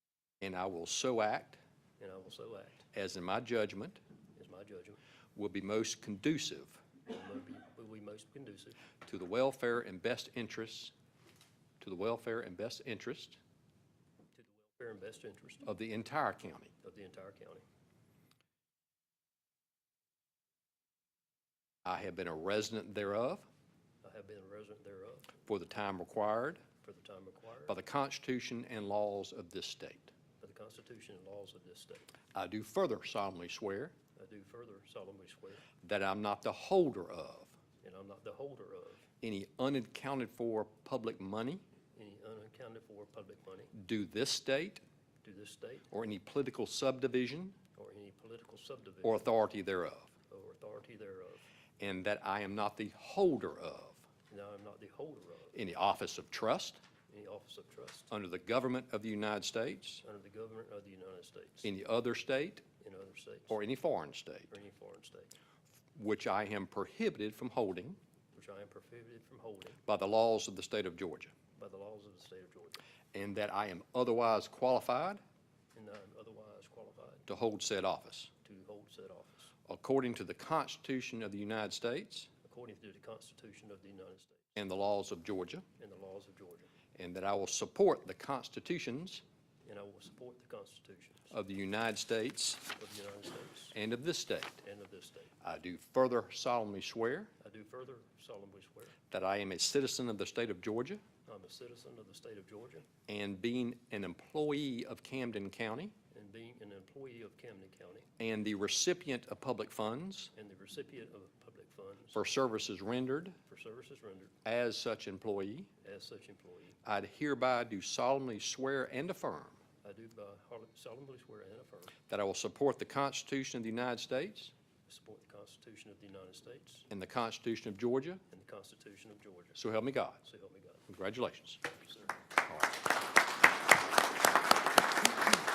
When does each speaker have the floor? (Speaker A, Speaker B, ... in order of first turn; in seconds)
Speaker A: 0.4-1.6, 2.9-4.0, 5.3-6.8, 9.0-10.9, 11.8-13.4, 15.6-16.7, 21.8-23.5, 25.5-26.6, 27.7-30.1, 32.3-34.0, 35.8-37.5, 39.2-41.6, 43.7-44.8, 45.9-47.5, 49.0-50.1, 51.8-54.1, 55.5-56.8, 58.1-60.0, 61.6-62.6, 63.5-64.5, 65.9-68.0, 69.9-71.3, 73.1-75.2, 77.3-78.3, 79.7-82.3, 84.6-85.7, 87.0-89.2, 91.3-92.6, 93.7-94.6, 95.4-97.3, 99.1-101.0, 103.1-106.0, 108.2-110.3, 112.1-113.4, 114.5-115.7, 116.8-119.6, 122.1-124.5, 126.9-128.2, 129.6-130.2, 130.9-131.6, 132.5-132.8
Speaker B: 2.0-2.9, 4.3-5.0, 7.0-8.8, 14.3-15.7, 16.8-17.6, 24.0-25.3, 26.8-27.8, 30.4-32.1, 34.2-35.6, 37.8-39.1, 42.0-43.7, 45.2-45.9, 47.8-49.4, 50.3-51.5, 54.3-55.6, 57.1-58.1, 60.0-61.7, 62.8-63.6, 64.5-65.3, 68.3-69.8, 71.5-72.8, 75.7-77.3, 78.4-79.5, 82.4-84.6, 85.8-86.7, 89.7-91.3, 92.8-93.8, 94.6-95.3, 97.4-99.0, 101.3-102.9, 106.1-108.1, 110.3-112.2, 113.5-114.3, 115.8-116.8, 119.8-121.9, 124.9-126.9, 128.3-129.6, 130.2-130.9